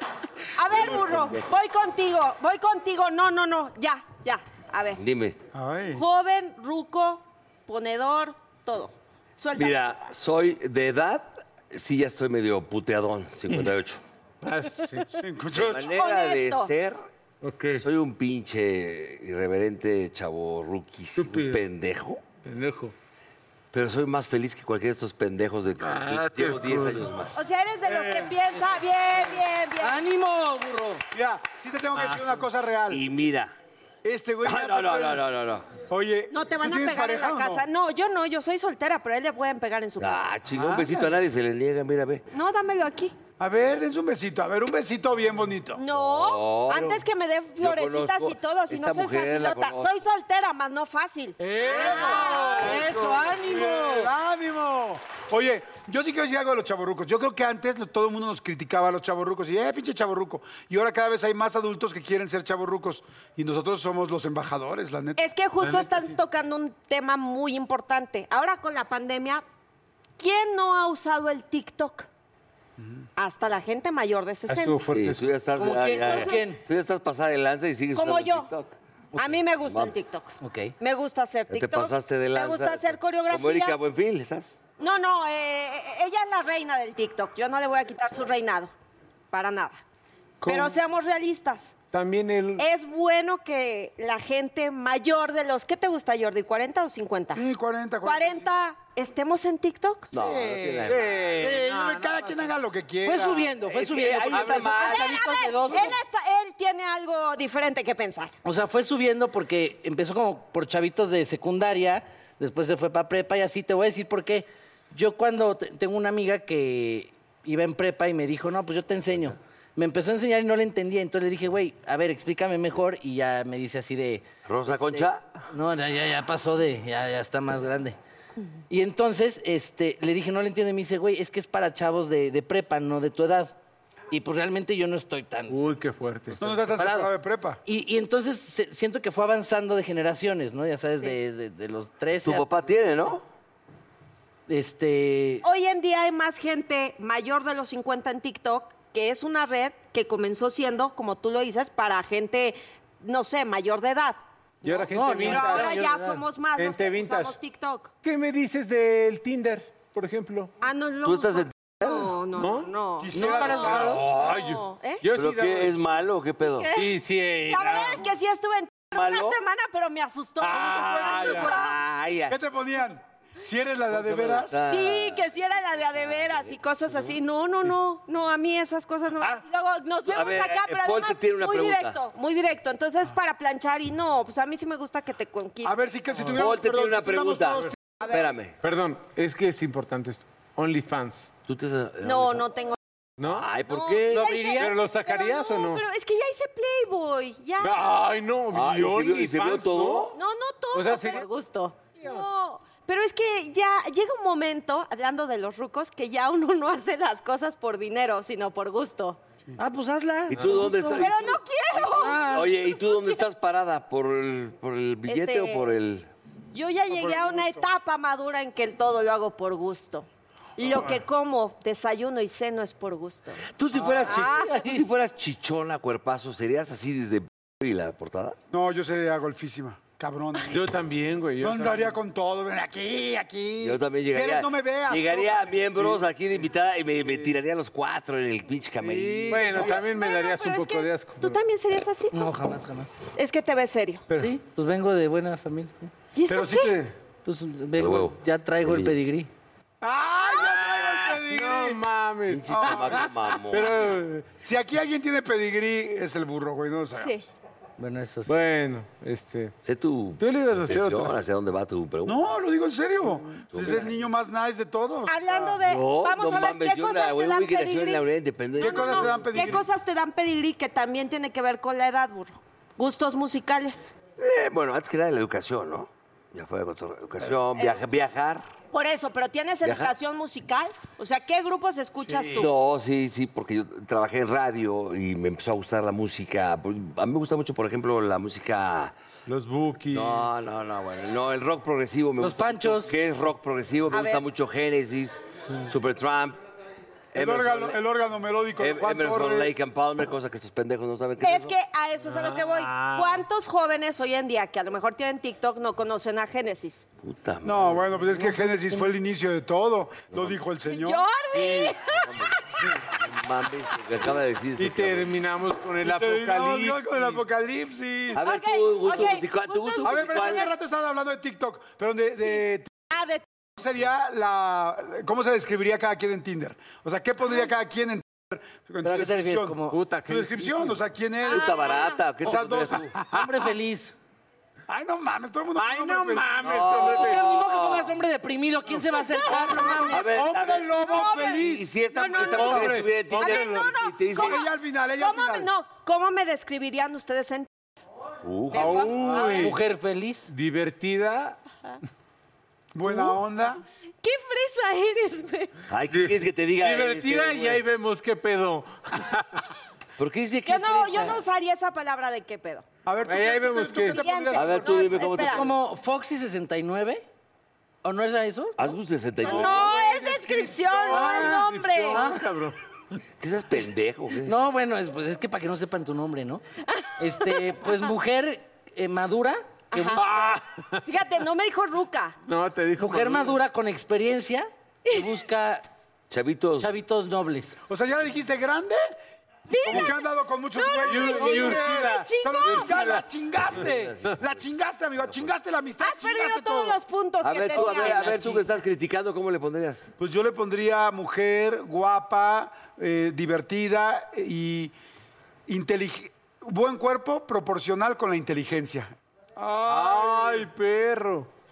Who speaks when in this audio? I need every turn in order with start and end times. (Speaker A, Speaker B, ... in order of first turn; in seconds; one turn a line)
Speaker A: 0.6-5.0
Speaker B: 0.7-1.2
Speaker C: 0.7-1.4
Speaker C: 4.9-5.4
Speaker B: 5.5-6.0
Speaker A: 5.9-9.8
Speaker C: 9.6-14.0
Speaker D: 14.4-15.2
Speaker B: 15.2-15.9
Speaker C: 15.5-17.1
Speaker A: 15.9-16.7
Speaker D: 17.4-17.9
Speaker C: 17.8-22.2
Speaker D: 21.2-21.6
Speaker D: 22.4-22.9
Speaker C: 23.7-27.4
Speaker D: 25.8-27.1
Speaker A: 27.3-30.0
Speaker B: 27.9-28.4
Speaker E: 29.8-31.0
Speaker B: 31.1-33.0
Speaker C: 32.9-33.5
Speaker B: 34.0-35.2
Speaker C: 34.4-35.7
Speaker B: 35.8-37.6
Speaker A: 36.3-40.3
Speaker C: 40.0-42.2
Speaker B: 40.5-41.1
Speaker A: 42.3-43.1
Speaker B: 43.4-45.8
Speaker A: 45.8-52.8
Speaker C: 45.9-47.0
Speaker C: 47.6-49.9
Speaker B: 51.4-65.2
Speaker E: 51.7-54.1
Speaker A: 65.2-69.4
Speaker D: 65.6-66.1
Speaker A: 70.2-72.1
Speaker B: 72.8-73.0
Speaker A: 73.2-74.8
Speaker D: 74.5-75.3
Speaker C: 74.9-78.7
Speaker E: 75.6-76.6
Speaker A: 76.1-76.5
Speaker A: 77.9-78.5
Speaker A: 79.2-83.8
Speaker C: 79.7-79.9
Speaker E: 80.4-80.7
Speaker C: 81.5-84.5
Speaker A: 84.8-88.7
Speaker A: 89.3-89.8
Speaker D: 90.4-90.8
Speaker A: 90.5-91.8
Speaker D: 91.9-92.7
Speaker A: 92.6-97.4
Speaker B: 97.3-98.5
Speaker A: 98.0-100.1
Speaker C: 100.1-101.3
Speaker B: 100.1-103.5
Speaker D: 100.9-102.5
Speaker E: 103.0-106.0
Speaker C: 103.6-105.7
Speaker A: 104.3-108.3
Speaker E: 108.5-128.0
Speaker C: 124.5-125.3
Speaker E: 128.7-133.6
Speaker E: 134.1-135.7
Speaker D: 135.5-136.6
Speaker B: 136.3-137.6
Speaker E: 136.8-137.1
Speaker E: 137.7-142.4
Speaker C: 142.2-143.2
Speaker E: 144.5-145.4
Speaker A: 145.4-154.2
Speaker D: 154.6-156.0
Speaker E: 154.8-156.2
Speaker A: 155.2-157.9
Speaker D: 156.6-157.4
Speaker D: 158.0-160.5
Speaker A: 160.6-165.0
Speaker C: 161.0-162.1
Speaker D: 162.3-162.7
Speaker B: 163.0-164.1
Speaker E: 163.1-164.1
Speaker C: 163.8-164.4
Speaker D: 163.8-165.8
Speaker C: 165.2-166.7
Speaker A: 166.6-166.9
Speaker D: 166.8-168.0
Speaker A: 167.5-171.8
Speaker C: 168.9-169.4
Speaker D: 170.4-171.4
Speaker B: 170.7-171.6
Speaker C: 171.0-172.4
Speaker B: 172.3-174.6
Speaker C: 173.9-175.2
Speaker A: 174.7-185.9
Speaker C: 176.0-176.6
Speaker C: 180.1-182.0
Speaker B: 185.6-187.8
Speaker C: 186.3-188.6
Speaker A: 188.0-188.3
Speaker D: 188.6-191.3
Speaker C: 191.5-192.4
Speaker A: 192.0-192.8
Speaker D: 193.2-193.5
Speaker C: 193.2-194.5
Speaker A: 193.6-197.9
Speaker E: 194.1-194.7
Speaker D: 194.4-195.8
Speaker D: 197.6-200.2
Speaker C: 198.5-200.2
Speaker A: 200.2-209.2
Speaker D: 200.7-201.3
Speaker E: 209.6-211.0
Speaker C: 210.3-216.1
Speaker A: 210.8-213.2
Speaker E: 211.9-212.5
Speaker A: 215.1-215.7
Speaker A: 216.5-220.1
Speaker B: 216.9-217.7
Speaker A: 220.6-223.4
Speaker C: 223.5-228.4
Speaker B: 223.7-224.0
Speaker A: 224.1-224.5
Speaker E: 224.1-224.8
Speaker B: 228.5-230.6
Speaker D: 230.5-231.9
Speaker B: 231.4-236.0
Speaker C: 233.6-239.6
Speaker B: 238.8-239.8
Speaker D: 239.3-241.4
Speaker A: 239.5-242.3
Speaker E: 242.1-242.9
Speaker A: 243.2-244.1
Speaker E: 244.1-245.9
Speaker A: 246.1-246.8
Speaker B: 246.3-247.0
Speaker E: 247.2-249.3
Speaker C: 247.8-248.9
Speaker B: 249.8-251.8
Speaker D: 250.4-254.3
Speaker C: 252.3-253.9
Speaker B: 252.5-253.1
Speaker B: 254.4-257.2
Speaker A: 257.0-257.2
Speaker E: 257.8-258.4
Speaker D: 258.3-259.6
Speaker C: 259.6-262.2
Speaker D: 260.2-261.2
Speaker B: 262.1-265.6
Speaker C: 263.5-263.9
Speaker A: 265.1-268.0
Speaker C: 265.6-269.6
Speaker A: 268.6-273.9
Speaker B: 268.6-269.6
Speaker C: 274.2-278.5
Speaker A: 277.6-277.8
Speaker A: 278.7-282.5
Speaker C: 279.6-279.9
Speaker C: 282.4-288.9
Speaker D: 289.3-290.2
Speaker B: 289.8-290.2
Speaker C: 289.9-296.4
Speaker E: 292.2-292.9
Speaker A: 293.9-294.2
Speaker C: 297.1-297.8
Speaker B: 297.1-299.6
Speaker C: 298.6-301.5
Speaker A: 301.2-306.9
Speaker D: 302.1-303.2
Speaker C: 307.0-307.9
Speaker B: 307.4-311.5
Speaker A: 310.7-312.3
Speaker C: 311.9-312.3
Speaker C: 312.9-315.1
Speaker D: 314.6-317.2
Speaker B: 315.8-318.2
Speaker C: 318.1-320.5
Speaker A: 318.1-320.5
Speaker B: 319.8-322.7
Speaker A: 322.9-323.2
Speaker B: 323.6-332.9
Speaker E: 328.8-329.8
Speaker D: 329.7-330.8
Speaker A: 331.3-332.0
Speaker C: 331.3-333.0
Speaker D: 332.9-333.3
Speaker E: 333.1-333.9
Speaker B: 334.7-336.4
Speaker D: 335.6-337.2
Speaker C: 336.4-338.0
Speaker E: 336.7-340.0
Speaker A: 339.1-340.0
Speaker B: 339.4-341.7
Speaker C: 339.9-344.4
Speaker A: 340.8-347.5
Speaker D: 342.3-343.7
Speaker B: 344.1-345.5
Speaker C: 348.2-349.0
Speaker A: 348.5-349.5
Speaker D: 348.5-349.6
Speaker E: 349.2-350.3
Speaker D: 350.3-351.4
Speaker B: 352.7-353.6
Speaker A: 354.0-355.5
Speaker C: 355.7-357.6
Speaker D: 355.9-359.5
Speaker C: 360.0-361.2
Speaker A: 360.4-362.6
Speaker B: 362.9-365.1
Speaker D: 363.1-364.0
Speaker A: 363.9-365.5
Speaker C: 364.3-365.5
Speaker E: 365.2-367.0
Speaker E: 367.8-368.6
Speaker C: 368.6-369.7
Speaker B: 369.2-371.3
Speaker A: 369.2-372.1
Speaker D: 370.9-372.6
Speaker E: 371.9-372.2
Speaker C: 373.2-374.4
Speaker E: 374.2-376.4
Speaker A: 376.7-377.6
Speaker E: 377.0-379.4
Speaker A: 379.7-380.1
Speaker D: 379.9-380.8
Speaker A: 380.8-382.2
Speaker D: 382.3-383.4
Speaker E: 382.8-385.7
Speaker C: 386.1-386.7
Speaker E: 386.6-387.6
Speaker B: 387.7-388.9
Speaker A: 389.5-392.7
Speaker B: 389.6-396.8
Speaker D: 390.8-393.0
Speaker C: 393.6-394.2
Speaker A: 395.8-398.4
Speaker C: 397.2-399.9
Speaker E: 398.1-398.4
Speaker B: 400.0-404.7
Speaker B: 405.5-410.5
Speaker D: 409.7-411.3